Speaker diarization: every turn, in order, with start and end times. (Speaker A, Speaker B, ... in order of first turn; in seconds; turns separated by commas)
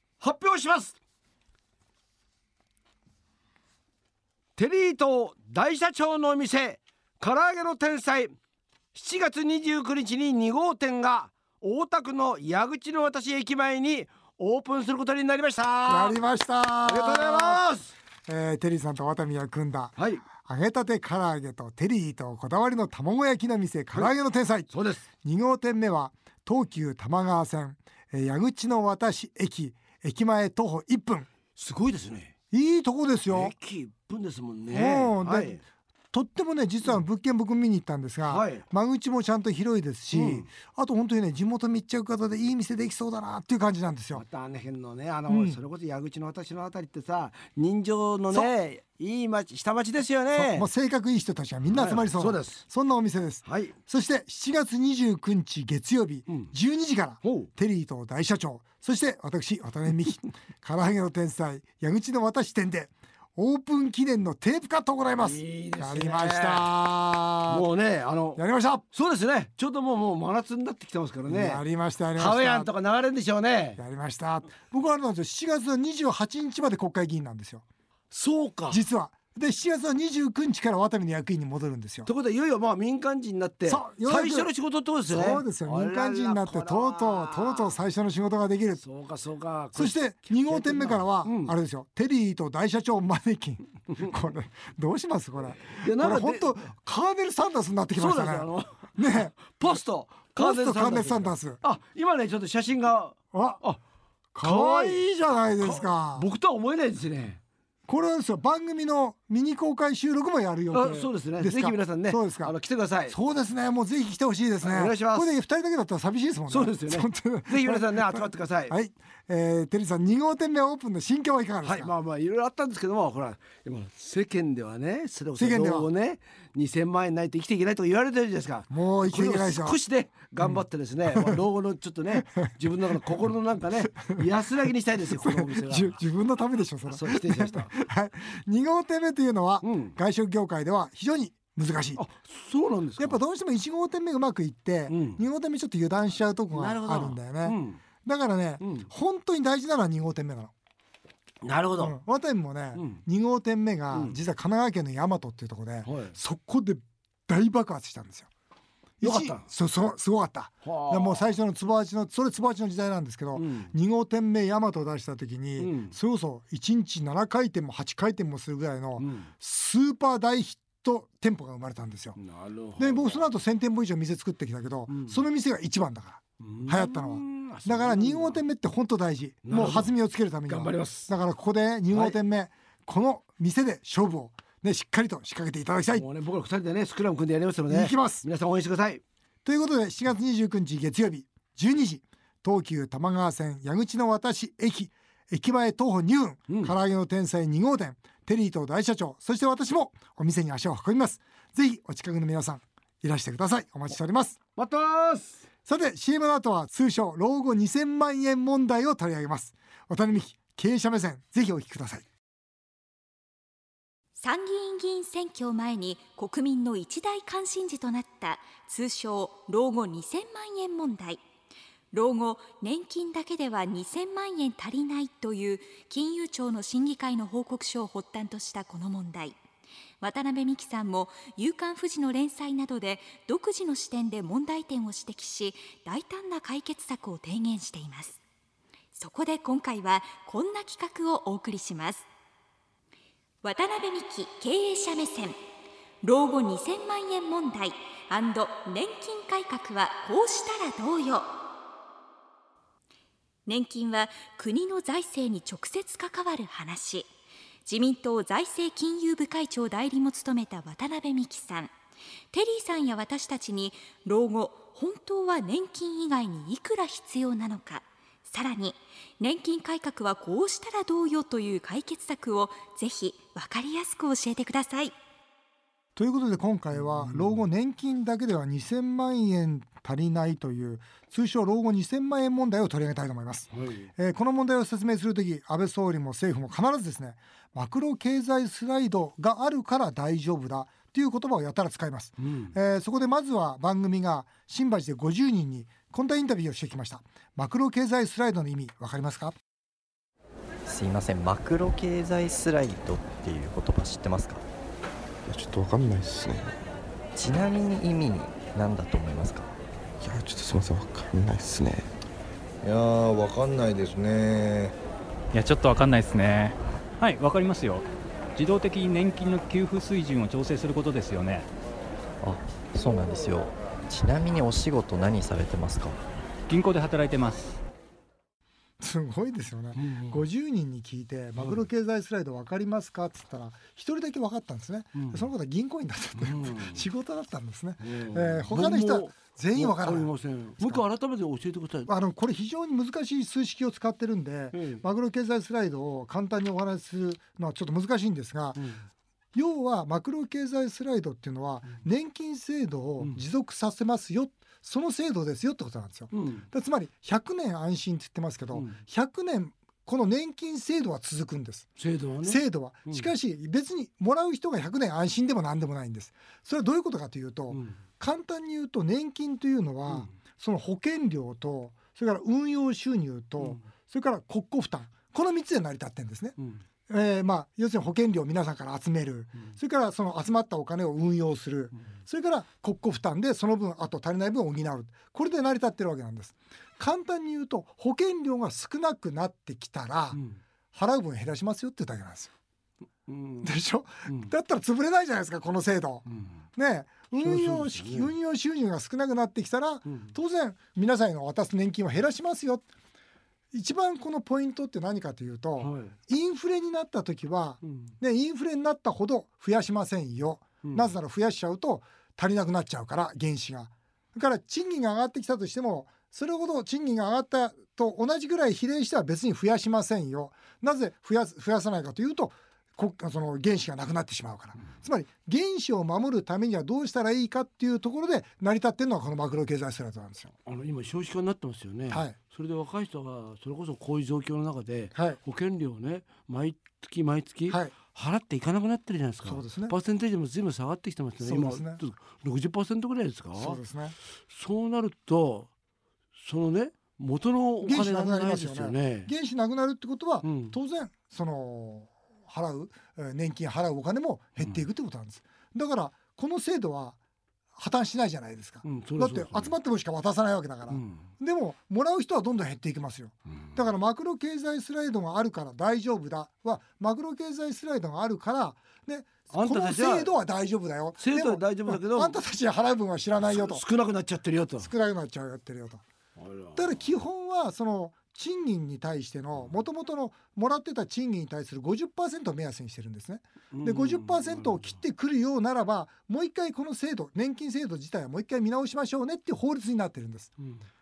Speaker A: 0.2-0.9, Speaker A: 4.6-8.3, Speaker A: 8.9-16.2, Speaker B: 15.9-17.6, Speaker A: 16.8-17.9, Speaker B: 18.3-31.3, Speaker A: 20.0-20.2, Speaker A: 24.7-25.1, Speaker A: 31.6-32.4, Speaker B: 32.5-33.5, Speaker A: 33.3-35.6, Speaker B: 34.7-35.6, Speaker B: 36.1-44.2, Speaker A: 38.3-38.6, Speaker A: 40.1-40.5, Speaker A: 44.1-50.7, Speaker B: 45.3-45.6, Speaker B: 50.3-67.7, Speaker A: 51.7-52.6, Speaker A: 53.4-53.8, Speaker A: 56.3-56.5, Speaker A: 57.2-57.5, Speaker A: 65.2-66.7, Speaker A: 67.5-71.6, Speaker B: 68.4-68.8, Speaker B: 71.3-72.7, Speaker A: 72.2-73.8, Speaker B: 73.8-77.6, Speaker A: 78.1-78.8, Speaker B: 78.7-82.1, Speaker A: 82.1-87.8, Speaker B: 83.7-84.5, Speaker B: 85.1-88.8, Speaker A: 88.8-91.5, Speaker B: 89.8-99.8, Speaker A: 95.7-96.6, Speaker A: 98.0-103.8, Speaker B: 100.4-101.6, Speaker B: 103.3-103.6, Speaker B: 104.3-106.3, Speaker A: 104.4-107.4, Speaker B: 107.9-112.5, Speaker A: 110.7-113.2, Speaker B: 113.1-121.9, Speaker A: 114.6-115.3, Speaker A: 116.5-118.8, Speaker A: 121.6-136.0, Speaker B: 125.4-125.9, Speaker B: 128.7-129.8, Speaker B: 130.4-131.4, Speaker B: 132.3-133.0, Speaker B: 133.9-134.2, Speaker B: 135.2-142.0, Speaker A: 136.9-137.8, Speaker A: 139.6-140.0, Speaker A: 142.0-143.2, Speaker B: 143.0-150.5, Speaker A: 144.9-145.2, Speaker A: 146.5-147.8, Speaker A: 148.6-148.9, Speaker A: 151.4-152.0, Speaker B: 151.8-158.3, Speaker A: 152.8-153.0, Speaker A: 153.9-154.2, Speaker A: 155.8-156.2, Speaker A: 159.0-159.5, Speaker B: 159.0-172.2, Speaker A: 160.6-161.3, Speaker A: 163.4-163.7, Speaker A: 165.6-166.0, Speaker A: 169.0-169.3, Speaker A: 172.2-173.3, Speaker B: 172.8-186.1, Speaker A: 174.9-175.2, Speaker A: 176.4-178.4, Speaker A: 179.5-179.9, Speaker A: 180.5-181.1, Speaker A: 181.9-182.2, Speaker A: 185.9-189.0, Speaker B: 187.7-188.2, Speaker B: 189.4-204.4, Speaker A: 196.5-196.7, Speaker A: 204.6-205.4, Speaker B: 205.7-212.1, Speaker C: 214.2-221.2, Speaker C: 221.9-229.4, Speaker C: 230.0-238.2, Speaker C: 238.9-242.1, Speaker C: 243.4-245.4, Speaker C: 246.0-251.3, Speaker C: 253.5-257.1, Speaker C: 257.7-261.7, Speaker C: 262.3-274.9, Speaker B: 276.0-299.4, Speaker A: 276.8-277.4, Speaker A: 283.5-283.9, Speaker A: 292.2-292.6, Speaker D: 300.6-304.4, Speaker E: 305.3-306.6, Speaker D: 307.2-309.5, Speaker E: 310.0-311.9, Speaker F: 312.6-314.8, Speaker G: 315.3-321.5, Speaker D: 322.2-326.0, Speaker G: 326.5-327.6, Speaker B: 328.8-340.8, Speaker A: 329.8-330.2, Speaker A: 331.4-331.6, Speaker A: 334.9-335.3, Speaker A: 336.2-336.9, Speaker A: 337.8-341.9, Speaker B: 341.9-348.7, Speaker A: 344.5-344.8, Speaker A: 348.6-348.8, Speaker B: 349.3-361.7, Speaker A: 356.1-356.5, Speaker A: 358.5-358.8, Speaker A: 361.8-363.1, Speaker B: 362.2-376.4, Speaker A: 367.5-367.8, Speaker B: 376.9-390.2, Speaker A: 390.1-390.4, Speaker B: 390.7-392.3, Speaker A: 393.1-393.5, Speaker B: 393.4-402.7, Speaker A: 394.1-394.3, Speaker A: 396.1-396.3, Speaker A: 397.2-398.1, Speaker A: 399.9-400.1, Speaker B: 403.5-430.3, Speaker A: 405.6-405.9, Speaker A: 407.6-407.9, Speaker A: 410.6-410.9, Speaker A: 430.4-443.6, Speaker B: 431.9-432.2, Speaker B: 434.9-435.2, Speaker B: 439.2-439.8, Speaker B: 441.2-441.8, Speaker B: 443.4-444.0, Speaker A: 444.3-445.5, Speaker A: 446.2-449.1, Speaker B: 447.6-457.0, Speaker A: 450.2-450.6, Speaker B: 457.6-473.6, Speaker A: 458.6-459.5, Speaker A: 460.7-461.1, Speaker A: 469.3-470.1, Speaker A: 471.0-472.2, Speaker A: 473.2-474.7, Speaker B: 474.6-475.8, Speaker A: 476.2-476.8, Speaker B: 476.6-490.3, Speaker A: 483.5-484.8